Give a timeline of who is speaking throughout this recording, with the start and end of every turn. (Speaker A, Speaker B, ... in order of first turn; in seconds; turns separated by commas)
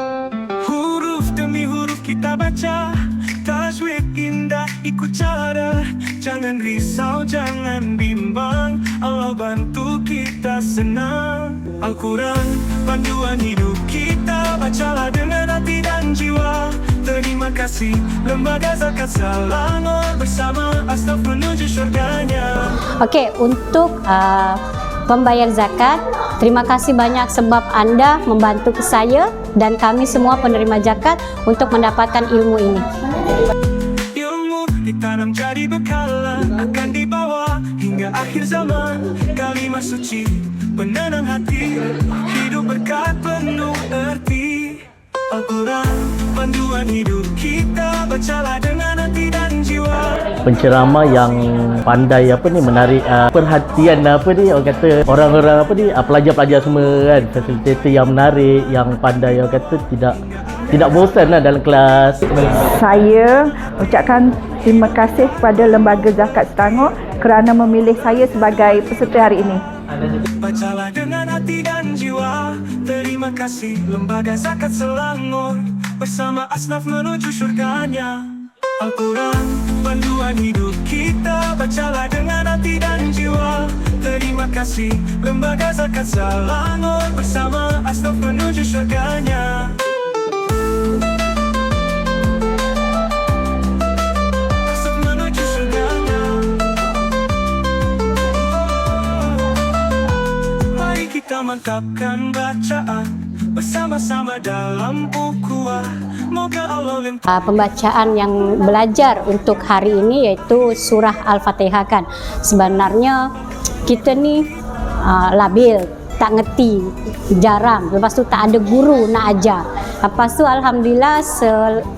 Speaker A: 0.6-22.8, Speaker B: 23.0-32.9, Speaker A: 34.1-50.3, Speaker C: 50.4-60.2, Speaker C: 60.7-62.6, Speaker D: 62.7-69.6, Speaker A: 70.4-89.8, Speaker A: 94.7-96.6, Speaker A: 100.7-107.2, Speaker B: 107.3-113.2, Speaker B: 113.8-114.5, Speaker B: 115.0-121.8